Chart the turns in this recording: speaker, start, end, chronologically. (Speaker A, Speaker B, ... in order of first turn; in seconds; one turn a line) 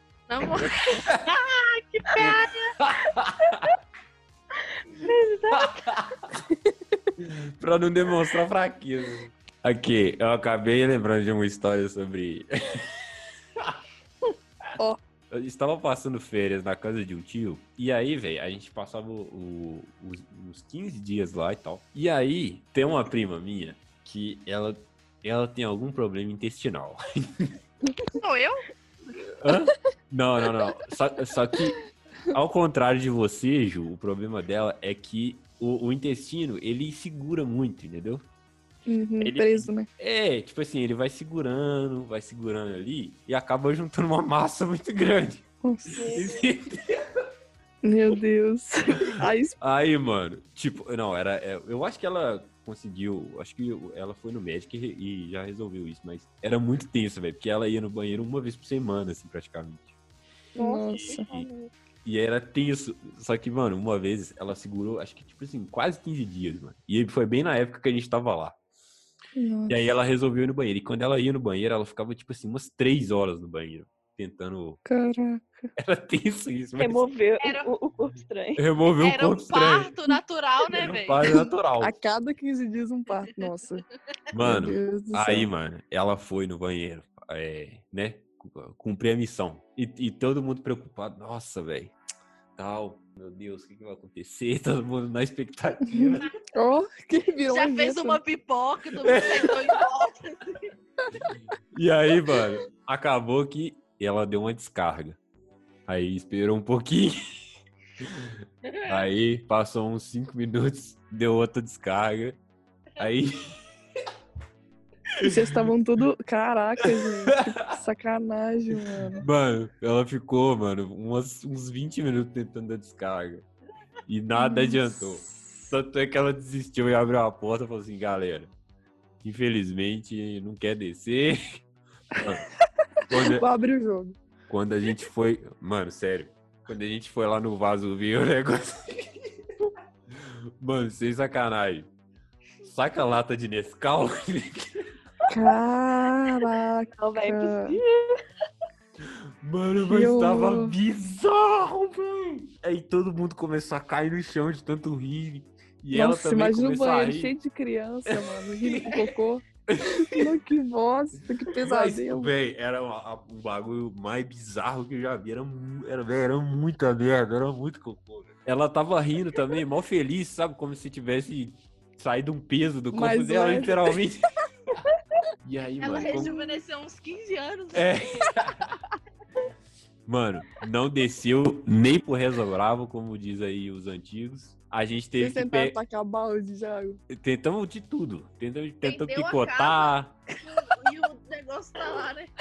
Speaker A: 0.3-2.7
Speaker B: 0.6-1.3
Speaker B: 2.2-3.7
Speaker C: 4.7-5.9
Speaker B: 5.5-6.1
Speaker D: 6.5-7.0
Speaker B: 7.2-13.0
Speaker B: 15.3-27.5
Speaker A: 28.1-28.6
Speaker B: 29.4-31.8
Speaker B: 32.3-38.2
Speaker D: 38.9-39.9
Speaker B: 39.2-45.4
Speaker D: 45.6-46.2
Speaker C: 46.0-46.4
Speaker B: 46.1-47.0
Speaker D: 47.8-49.5
Speaker B: 49.6-59.9
Speaker D: 60.5-61.5
Speaker C: 60.5-61.7
Speaker B: 62.0-68.6
Speaker D: 69.3-69.8
Speaker B: 69.7-74.8
Speaker D: 74.8-75.7
Speaker B: 75.8-77.0
Speaker C: 76.8-78.6
Speaker A: 77.4-77.7
Speaker B: 78.6-79.9
Speaker A: 79.0-81.2
Speaker B: 80.7-81.9
Speaker D: 81.3-83.8
Speaker B: 84.3-91.9
Speaker D: 84.4-85.5
Speaker B: 92.6-96.3
Speaker D: 95.9-98.2
Speaker A: 97.5-100.7
Speaker B: 99.0-99.8
Speaker D: 101.0-101.3
Speaker B: 101.7-105.2
Speaker B: 105.9-107.2
Speaker B: 108.0-112.4
Speaker A: 108.6-109.0
Speaker B: 113.0-113.6
Speaker B: 115.2-115.6
Speaker D: 115.2-119.2
Speaker B: 119.1-123.5
Speaker B: 124.1-128.5
Speaker D: 124.3-125.4
Speaker B: 129.2-131.6
Speaker B: 132.2-132.4
Speaker B: 133.1-133.4
Speaker D: 133.1-134.2
Speaker B: 134.5-139.1
Speaker B: 140.1-141.9
Speaker B: 142.6-144.7
Speaker D: 145.3-147.8
Speaker C: 146.9-148.2
Speaker B: 149.0-157.3
Speaker D: 149.8-150.8
Speaker D: 155.9-159.4
Speaker B: 158.1-158.9
Speaker B: 159.7-160.3
Speaker D: 160.1-162.3
Speaker B: 161.6-174.2
Speaker D: 172.9-173.9
Speaker B: 175.4-176.4
Speaker A: 175.8-178.2
Speaker D: 176.0-176.6
Speaker B: 177.7-178.7
Speaker B: 180.1-185.8
Speaker D: 185.2-187.0
Speaker B: 187.1-190.1
Speaker A: 188.8-192.3